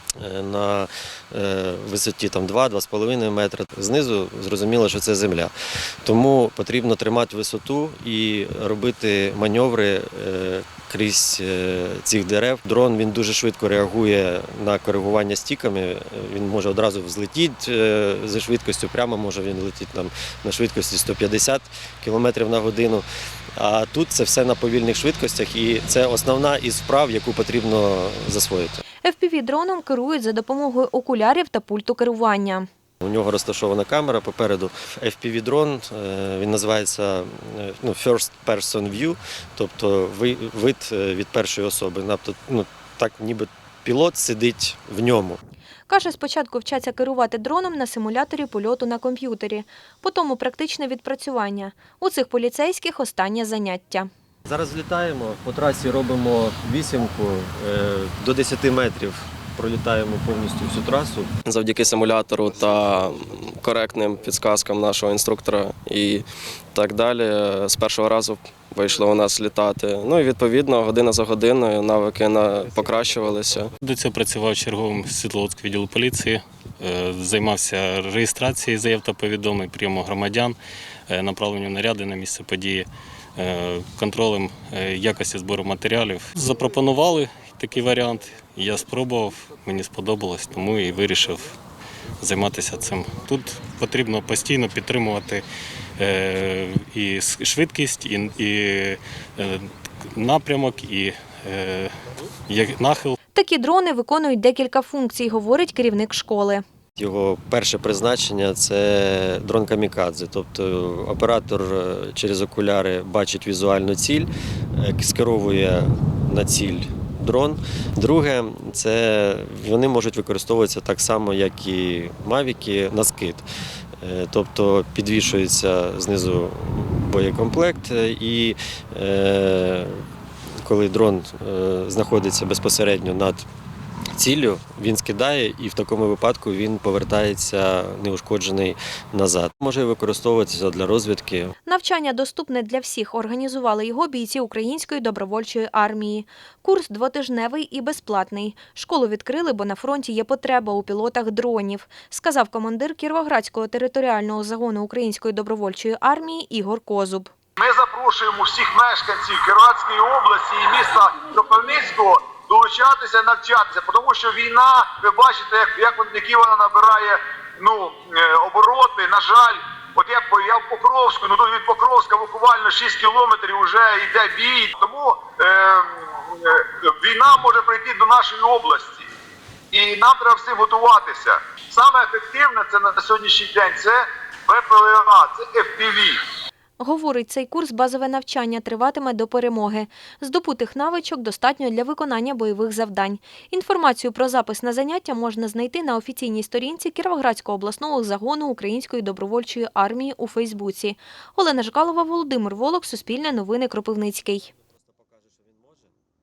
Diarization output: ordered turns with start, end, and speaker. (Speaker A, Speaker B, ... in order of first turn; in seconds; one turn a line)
Speaker A: 0.2-5.5
Speaker A: 6.0-28.8
Speaker B: 29.0-32.7
Speaker A: 33.0-45.4
Speaker B: 45.9-54.1
Speaker A: 54.5-61.3
Speaker C: 61.4-73.7
Speaker D: 73.8-80.6
Speaker D: 81.1-91.5
Speaker D: 92.2-95.4
Speaker D: 96.0-101.9
Speaker D: 102.5-103.2
Speaker B: 103.3-106.6
Speaker A: 107.0-123.5
Speaker A: 124.0-130.1
Speaker A: 130.6-133.4
Speaker A: 134.2-141.5
Speaker B: 141.7-157.3
Speaker E: 157.6-179.1
Speaker E: 179.7-186.2
Speaker B: 186.8-204.5
Speaker A: 204.7-206.0